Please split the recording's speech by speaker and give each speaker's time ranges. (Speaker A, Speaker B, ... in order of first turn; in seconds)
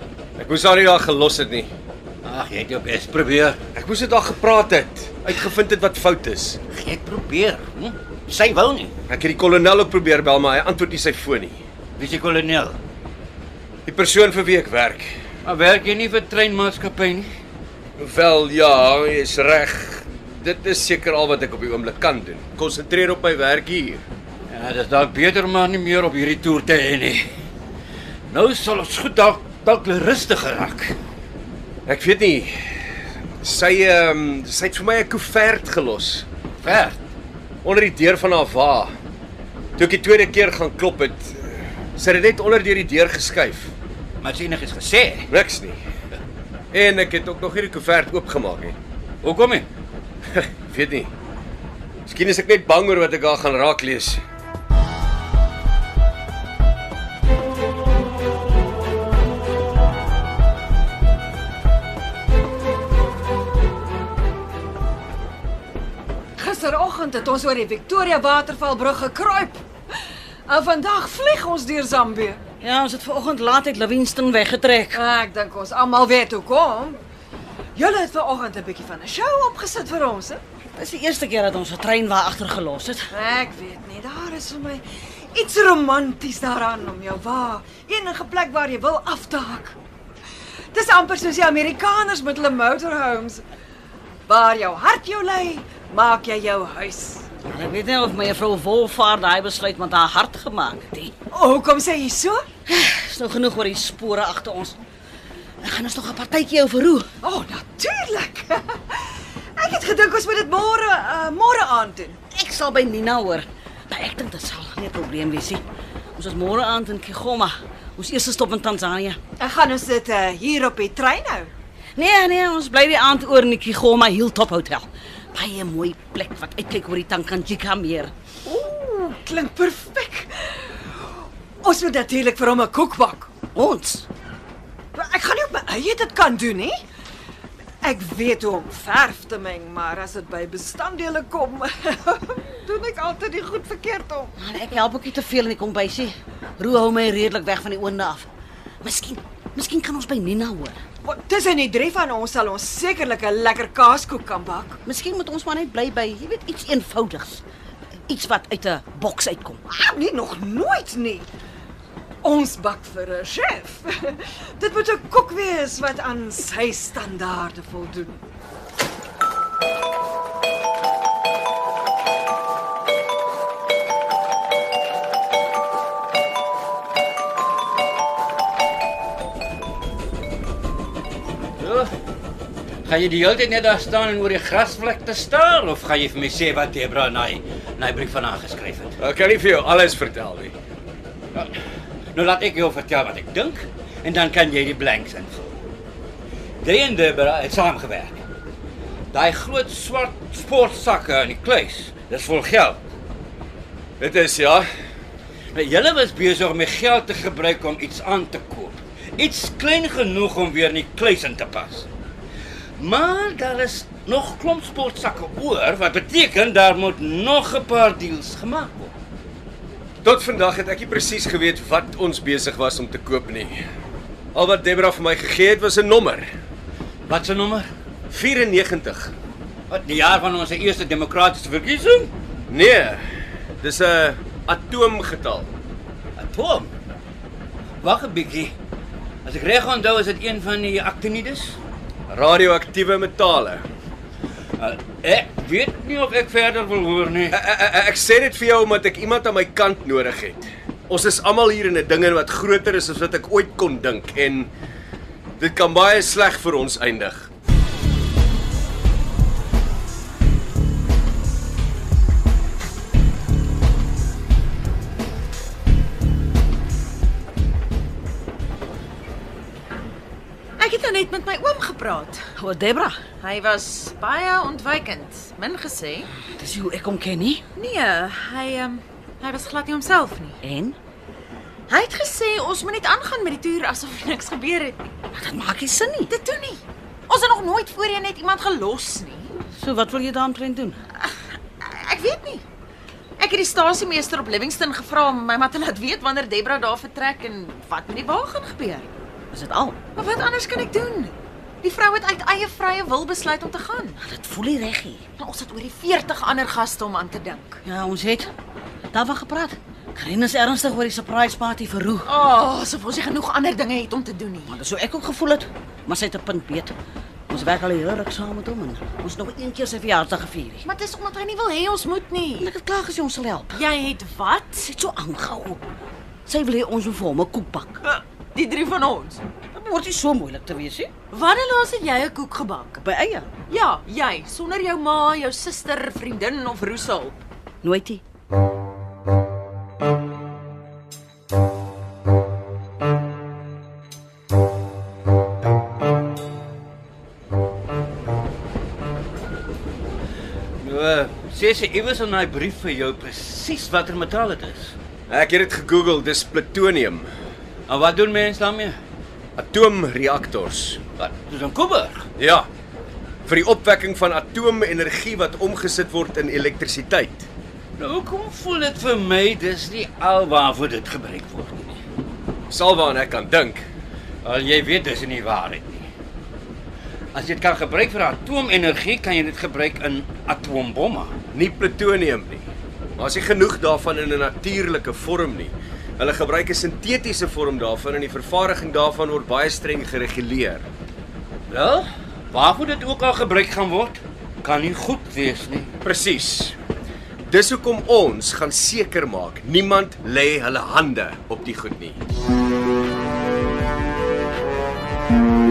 Speaker A: 0.4-1.7, 3.7-6.6, 9.1-11.6, 13.8-15.2, 18.0-24.0, 31.9-32.8, 33.4-36.2, 37.6-38.9, 39.8-43.7, 45.3-45.8, 46.7-48.8, 50.3-51.1, 52.0-54.2, 189.0-190.5, 204.0-204.7, 220.0-223.6, 224.3-226.3, 228.1-229.1, 232.5-233.0, 233.6-235.5, 242.1-243.6, 247.3-254.5, 255.4-257.3, 355.1-357.1, 359.4-360.8, 362.2-362.5, 363.2-367.3, 372.5-373.6, 381.3-390.6, 395.8-396.6, 397.3-402.0
Speaker B: 2.2-3.6, 6.7-8.9, 12.0-12.8, 15.4-17.3, 24.5-27.2, 28.3-30.9, 36.6-37.0, 44.2-45.3, 49.2-49.7, 181.6-181.9, 182.8-188.9, 192.1-195.6, 196.6-198.2, 199.1-202.8, 205.5-211.9, 212.8-218.9, 227.1-227.7, 229.7-232.1, 236.2-236.7, 237.8-238.5, 239.2-241.6, 244.6-247.4, 350.6-354.7, 357.7-358.8, 361.0-362.1, 367.8-371.8, 374.2-375.9, 377.1-381.1, 391.5-395.8
Speaker C: 66.4-69.6, 70.5-72.4, 74.9-77.0, 77.8-80.4, 83.1-89.8, 90.7-93.4, 94.3-97.2, 101.3-102.4, 107.2-112.2, 119.4-121.5, 128.4-130.8, 131.6-133.3, 134.9-136.8, 137.8-144.3, 151.0-154.8, 159.7-161.3, 162.2-168.2
Speaker D: 72.6-75.0, 80.7-83.1, 97.5-101.1, 102.7-104.8, 105.6-107.1, 112.3-115.6, 116.1-119.2, 122.0-128.1, 133.5-134.1, 144.4-148.3, 148.8-150.8, 154.8-157.4, 158.1-159.6, 272.4-273.0, 276.3-277.4, 280.4-280.8, 285.1-286.1, 289.5-290.8, 299.3-299.8, 304.0-305.0, 307.6-308.3, 308.9-312.1, 314.5-316.7, 317.3-320.6, 322.4-323.6, 324.6-325.6, 326.2-327.8, 329.5-330.9, 332.8-333.3, 337.6-338.0
Speaker E: 270.6-272.2, 273.2-276.1, 277.5-280.4, 281.7-284.8, 286.1-289.3, 290.9-292.4, 293.2-298.9, 299.9-304.0, 305.2-307.6, 312.0-314.6, 320.6-322.5, 323.5-324.7, 327.8-329.2, 331.1-332.8, 333.5-337.2